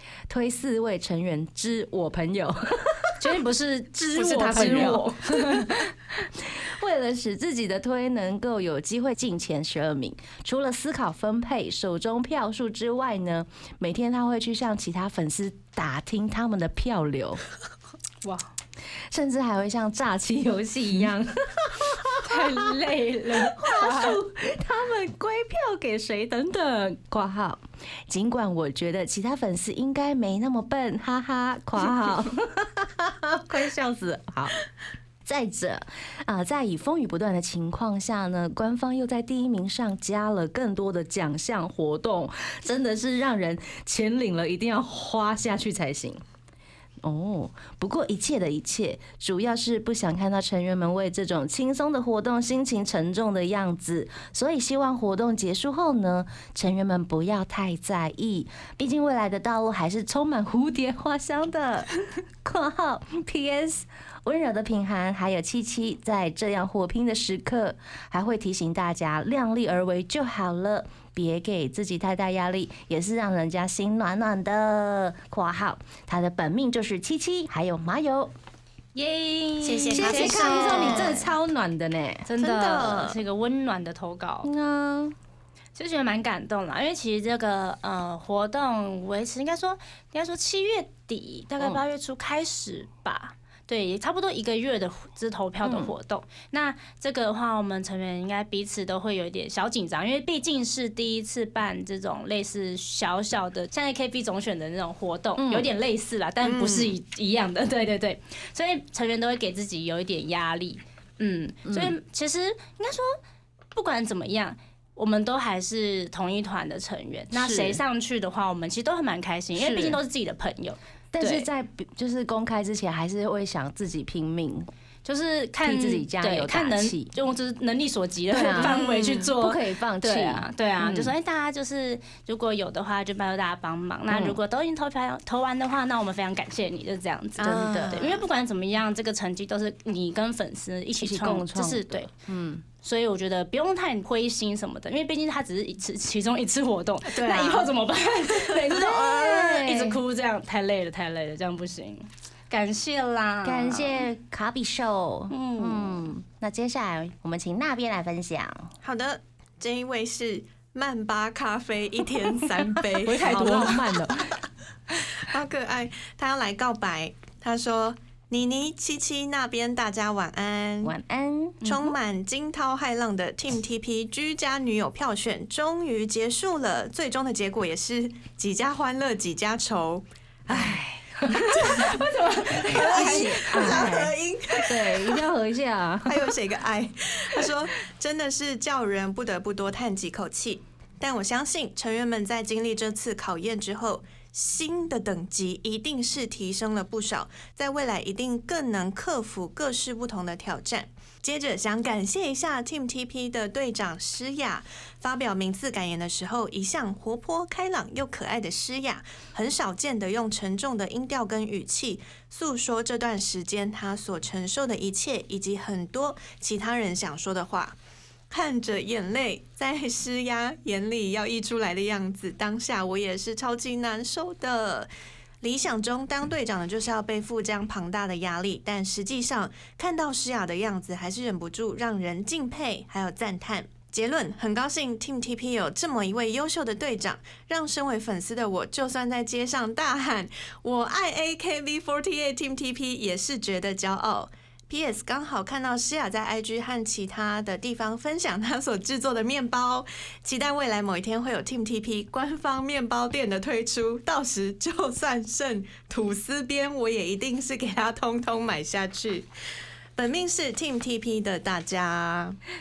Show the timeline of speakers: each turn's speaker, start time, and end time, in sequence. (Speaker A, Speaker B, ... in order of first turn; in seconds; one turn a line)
Speaker A: 0.3-3.3
Speaker B: 3.2-5.9
Speaker A: 4.1-17.4
Speaker B: 18.2-18.5
Speaker A: 19.1-22.7
Speaker B: 22.2-24.2
Speaker A: 23.3-34.6
Speaker A: 35.2-46.2
Speaker A: 47.0-78.3
Speaker B: 78.9-81.3
Speaker C: 79.6-81.2
Speaker A: 79.9-82.3
Speaker B: 82.2-84.5
Speaker C: 82.4-83.2
Speaker A: 84.4-85.1
Speaker B: 85.8-113.2
Speaker A: 95.6-95.9
Speaker A: 105.4-105.7
Speaker C: 106.4-106.9
Speaker A: 111.7-112.0
Speaker B: 113.7-121.5
Speaker A: 117.3-117.8
Speaker A: 119.5-120.0
Speaker A: 121.1-124.7
Speaker B: 125.0-142.1
Speaker A: 125.6-127.1
Speaker A: 128.3-131.1
Speaker C: 128.6-129.3
Speaker A: 134.1-134.4
Speaker C: 137.4-138.2
Speaker A: 137.4-138.1
Speaker A: 141.0-142.6
Speaker B: 142.8-154.1
Speaker C: 147.1-147.7
Speaker A: 148.7-150.0
Speaker A: 153.4-158.7
Speaker B: 155.3-156.0
Speaker C: 158.8-163.8
Speaker A: 162.8-164.2
Speaker B: 163.0-164.3
Speaker C: 165.0-170.9
Speaker A: 170.8-171.6
Speaker C: 171.6-180.0
Speaker A: 180.5-181.9
Speaker B: 180.5-184.0
Speaker C: 181.5-182.0
Speaker C: 182.6-185.2
Speaker A: 182.8-186.3
Speaker C: 186.0-217.8
Speaker C: 218.3-224.9
Speaker C: 225.4-259.3
Speaker C: 259.9-262.4